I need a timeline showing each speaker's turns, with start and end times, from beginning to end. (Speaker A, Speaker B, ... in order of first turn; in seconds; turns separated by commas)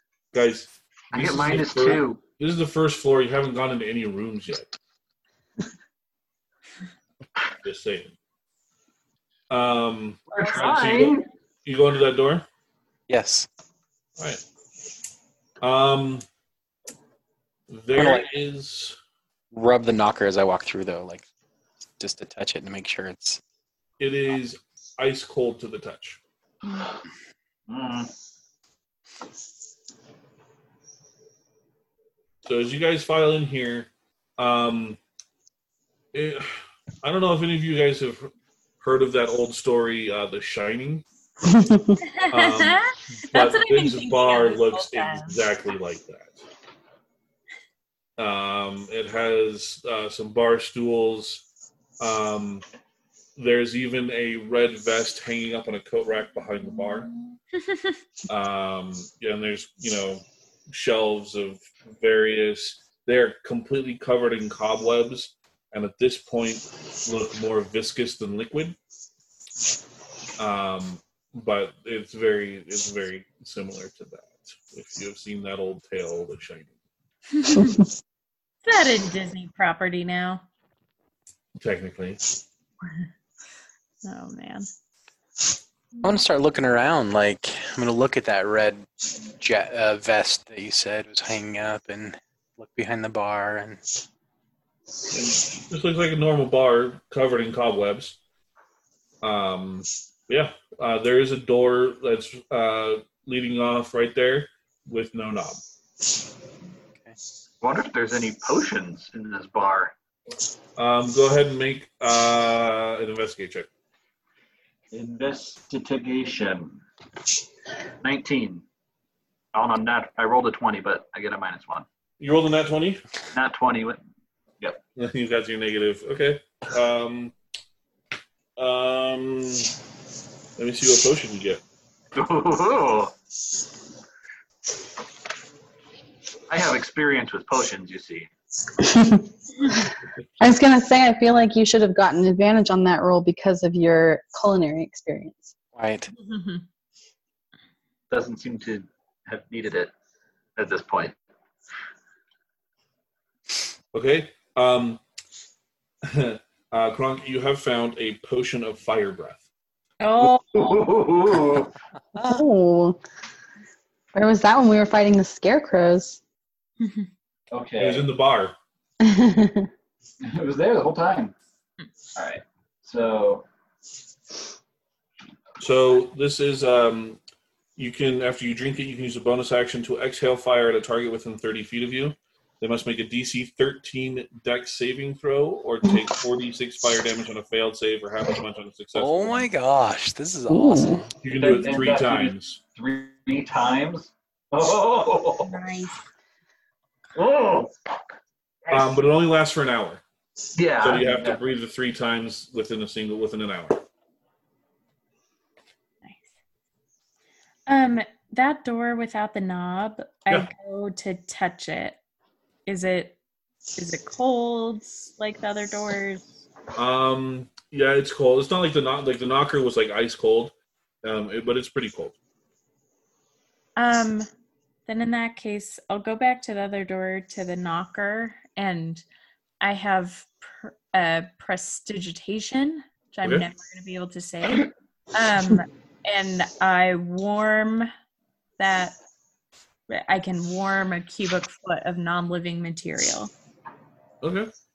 Speaker A: 0.3-4.7, Speaker B: 1.1-2.2, Speaker A: 7.6-8.1, Speaker A: 9.5-12.4, Speaker B: 10.3-11.2, Speaker C: 13.1-13.5, Speaker A: 15.6-16.2, Speaker A: 17.7-19.0, Speaker C: 17.9-18.2, Speaker C: 19.5-21.2, Speaker C: 22.0-23.4, Speaker A: 24.0-26.2, Speaker D: 26.6-26.9, Speaker B: 27.7-28.1, Speaker A: 32.5-35.0, Speaker A: 36.1-41.0, Speaker E: 41.4-42.0, Speaker D: 42.1-45.3, Speaker A: 42.3-46.4, Speaker A: 48.2-51.4, Speaker A: 52.0-52.6, Speaker A: 53.4-57.1, Speaker D: 57.7-57.9, Speaker A: 58.3-68.8, Speaker A: 70.4-76.7, Speaker D: 77.3-77.8, Speaker E: 77.5-77.8, Speaker D: 78.6-80.4, Speaker A: 81.6-82.2, Speaker D: 84.0-84.7, Speaker C: 86.0-93.8, Speaker A: 95.1-98.2, Speaker A: 99.2-105.6, Speaker B: 107.6-109.9, Speaker A: 110.8-113.7, Speaker B: 114.9-116.8, Speaker B: 118.0-118.6, Speaker B: 119.5-121.8, Speaker A: 122.2-123.0, Speaker B: 123.3-124.0, Speaker A: 125.0-127.3, Speaker A: 128.6-129.7, Speaker A: 130.6-131.6, Speaker B: 132.1-133.1, Speaker B: 136.5-138.3, Speaker E: 138.8-139.8, Speaker E: 140.4-145.5, Speaker C: 145.7-146.1, Speaker D: 146.2-146.6, Speaker B: 148.1-149.9, Speaker B: 150.6-151.1, Speaker A: 153.9-155.0, Speaker A: 156.0-159.4, Speaker D: 160.0-160.8, Speaker B: 160.5-161.7, Speaker C: 162.2-162.4, Speaker E: 162.2-163.0, Speaker E: 164.1-166.2, Speaker D: 166.8-167.1, Speaker B: 167.5-168.1, Speaker A: 167.8-168.5, Speaker E: 169.0-169.7, Speaker B: 170.2-171.3, Speaker B: 172.1-173.4, Speaker A: 175.6-177.2, Speaker A: 177.8-189.5, Speaker C: 188.9-191.1, Speaker E: 190.5-191.0, Speaker A: 191.2-192.6, Speaker B: 191.3-195.5, Speaker D: 195.4-196.0, Speaker B: 197.1-197.7, Speaker B: 198.6-198.9, Speaker A: 198.7-200.0, Speaker B: 200.5-201.4, Speaker A: 200.8-203.8, Speaker D: 207.7-212.0, Speaker D: 212.7-213.2, Speaker D: 213.8-216.2, Speaker A: 216.7-222.2, Speaker D: 223.8-224.3, Speaker D: 224.9-229.0, Speaker D: 229.6-237.9, Speaker D: 238.6-238.9, Speaker D: 239.9-243.3, Speaker A: 244.2-244.5